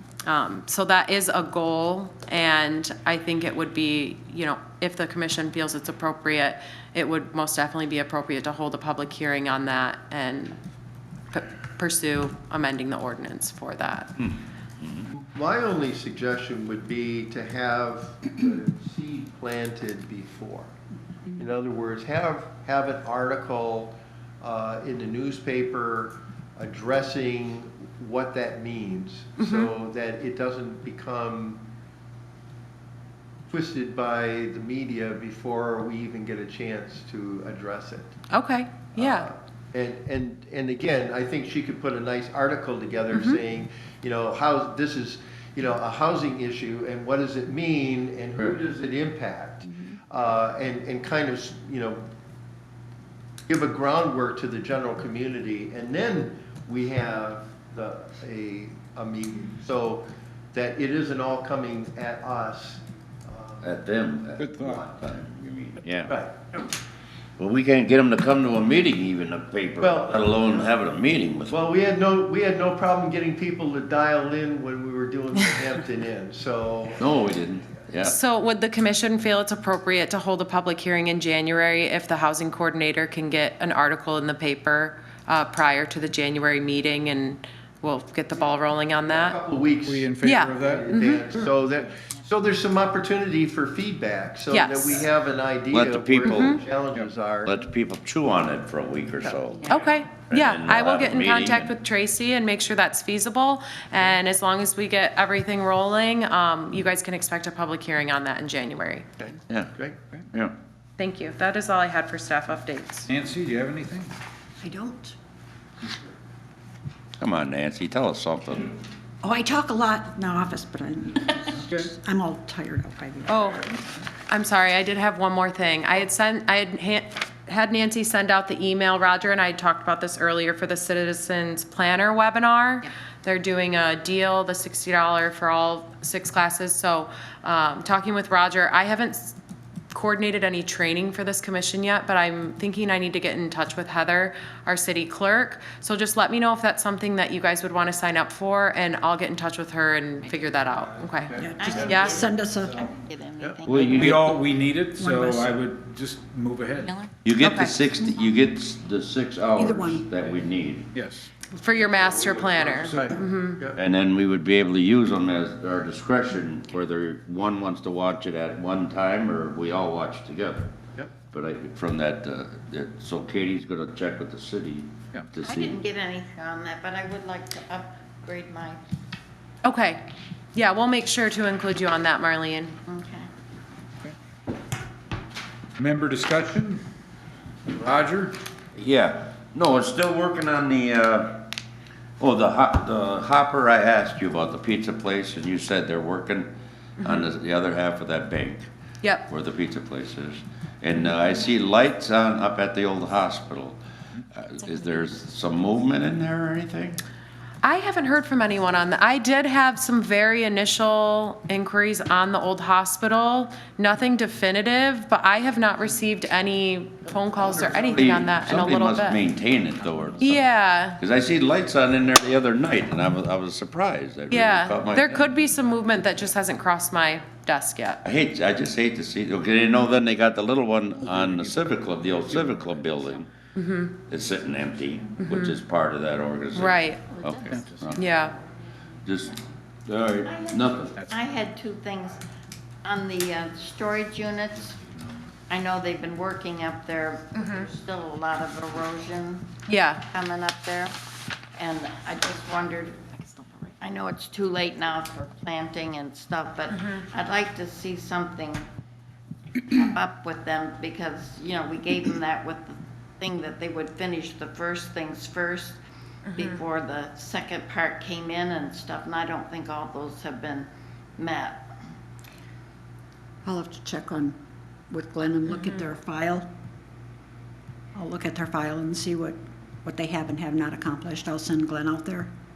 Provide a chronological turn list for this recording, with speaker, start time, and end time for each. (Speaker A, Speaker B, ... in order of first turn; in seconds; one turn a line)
Speaker A: 0.2-10.6
Speaker A: 11.3-14.2
Speaker B: 14.2-15.1
Speaker C: 15.1-20.7
Speaker C: 21.3-31.6
Speaker A: 29.4-29.7
Speaker C: 33.5-38.2
Speaker A: 38.3-39.3
Speaker C: 39.0-52.0
Speaker A: 43.1-43.4
Speaker C: 53.5-63.7
Speaker B: 63.6-66.1
Speaker D: 64.4-64.9
Speaker C: 66.1-66.5
Speaker B: 67.4-71.6
Speaker C: 69.8-70.7
Speaker C: 71.5-77.1
Speaker B: 77.0-78.2
Speaker A: 78.0-89.4
Speaker C: 89.0-97.5
Speaker D: 89.8-90.9
Speaker A: 90.2-91.2
Speaker A: 94.5-95.0
Speaker B: 95.7-96.6
Speaker A: 96.3-96.6
Speaker B: 97.4-101.7
Speaker A: 99.7-109.0
Speaker B: 109.5-110.5
Speaker A: 111.0-113.1
Speaker D: 113.1-114.1
Speaker E: 114.6-115.1
Speaker B: 117.2-118.7
Speaker E: 119.2-123.8
Speaker D: 121.6-121.9
Speaker A: 123.2-123.7
Speaker A: 124.3-139.4
Speaker A: 139.9-152.3
Speaker D: 150.7-152.9
Speaker E: 151.3-152.8
Speaker F: 151.4-154.4
Speaker D: 153.6-156.9
Speaker B: 153.7-154.2
Speaker E: 154.9-155.6
Speaker F: 156.8-157.1
Speaker B: 157.2-160.9
Speaker A: 157.4-157.8
Speaker E: 159.5-160.1
Speaker D: 160.9-161.3
Speaker A: 161.5-163.6
Speaker C: 162.2-163.8
Speaker D: 162.6-163.2
Speaker B: 163.7-170.7
Speaker B: 171.3-175.8
Speaker F: 175.4-178.8
Speaker A: 179.6-180.0
Speaker A: 180.5-182.8
Speaker F: 182.9-183.3
Speaker D: 185.8-186.8
Speaker D: 187.7-188.3
Speaker B: 188.7-191.5
Speaker B: 192.2-198.7
Speaker A: 197.0-197.3
Speaker A: 199.0-199.3
Speaker B: 199.2-203.8
Speaker B: 204.3-207.0
Speaker A: 207.6-219.2
Speaker B: 217.8-225.1
Speaker A: 220.2-221.0
Speaker A: 224.3-228.0
Speaker B: 228.0-233.3
Speaker D: 231.2-231.5
Speaker D: 232.3-232.6
Speaker A: 233.5-233.9
Speaker B: 234.0-238.0
Speaker A: 235.2-235.6
Speaker A: 236.5-237.0
Speaker F: 237.2-238.1
Speaker D: 237.5-237.9
Speaker A: 237.9-238.3
Speaker B: 239.0-239.3
Speaker B: 239.8-240.9
Speaker F: 240.2-242.2
Speaker F: 242.8-244.8
Speaker F: 245.5-249.5
Speaker A: 247.4-247.7
Speaker A: 249.7-250.0
Speaker F: 250.1-250.9
Speaker F: 251.6-258.6
Speaker F: 259.6-265.8
Speaker A: 266.3-266.6
Speaker F: 266.3-271.7
Speaker E: 273.4-274.4
Speaker E: 274.9-276.5
Speaker A: 275.4-275.8
Speaker E: 277.9-282.3